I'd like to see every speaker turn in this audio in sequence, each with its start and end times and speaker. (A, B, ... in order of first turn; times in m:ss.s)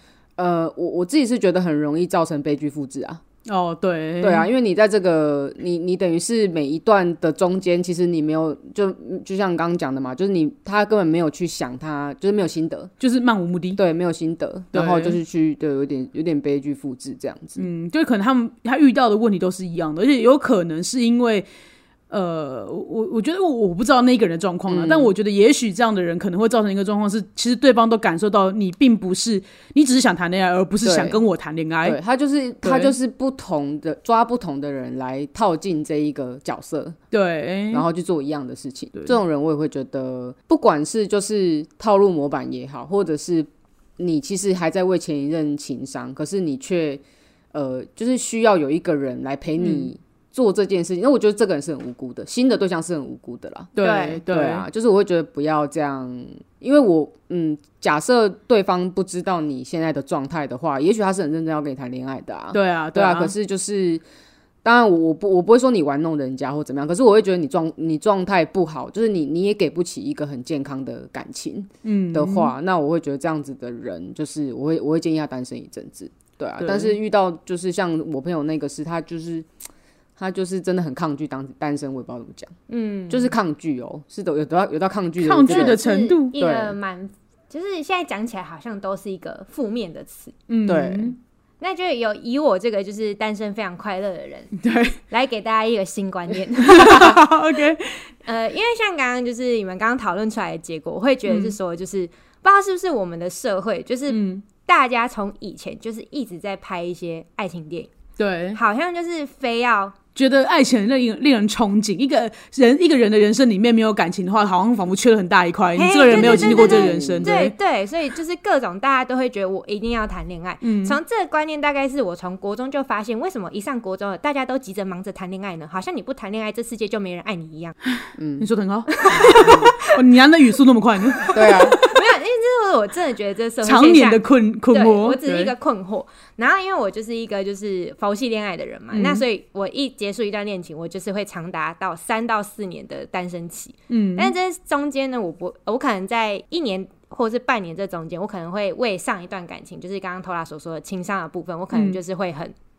0:00.4-0:03.2 A
0:03.5-0:04.5 B
0:04.2-0:12.9 A
0:13.0-0:13.8 B
0:13.7-0:17.6 A
0:14.7-0:15.2 B
0:17.6-0:21.5 B
0:22.1-0:32.0 B
0:24.7-0:25.1 A
0:30.8-0:31.2 A
0:31.8-0:37.0 A
0:32.6-0:32.9 B
0:37.1-0:37.8 B
0:37.7-1:04.0 A
0:49.6-0:49.9 B
0:53.8-0:54.6 B
0:53.8-0:54.2 C
1:02.5-1:03.3 B
1:04.6-1:19.5 A
1:11.8-1:12.5 B
1:16.6-1:17.0 B
1:20.2-1:22.5 A
1:22.7-1:23.3 C
1:23.1-1:25.8 A
1:25.2-1:26.3 B
1:25.5-1:30.3 C
1:26.3-1:26.8 A
1:30.5-1:31.2 B
1:30.6-1:31.2 A
1:31.6-1:34.5 C
1:34.6-1:35.0 B
1:35.1-1:37.2 C
1:36.6-1:38.0 B
1:38.2-1:47.9 C
1:41.2-1:41.6 B
1:44.1-1:44.4 B
1:48.2-1:48.6 B
1:48.5-1:50.0 C
1:50.1-1:57.5 B
1:55.8-2:07.7 C
1:56.1-1:57.3 A
2:00.6-2:01.0 B
2:08.2-2:08.5 A
2:08.4-2:11.7 B
2:09.0-2:09.9 C
2:09.2-2:09.7 A
2:11.2-2:32.5 C
2:11.3-2:11.8 A
2:13.6-2:15.5 B
2:18.9-2:19.2 B
2:23.9-2:24.3 B
2:31.7-2:32.0 B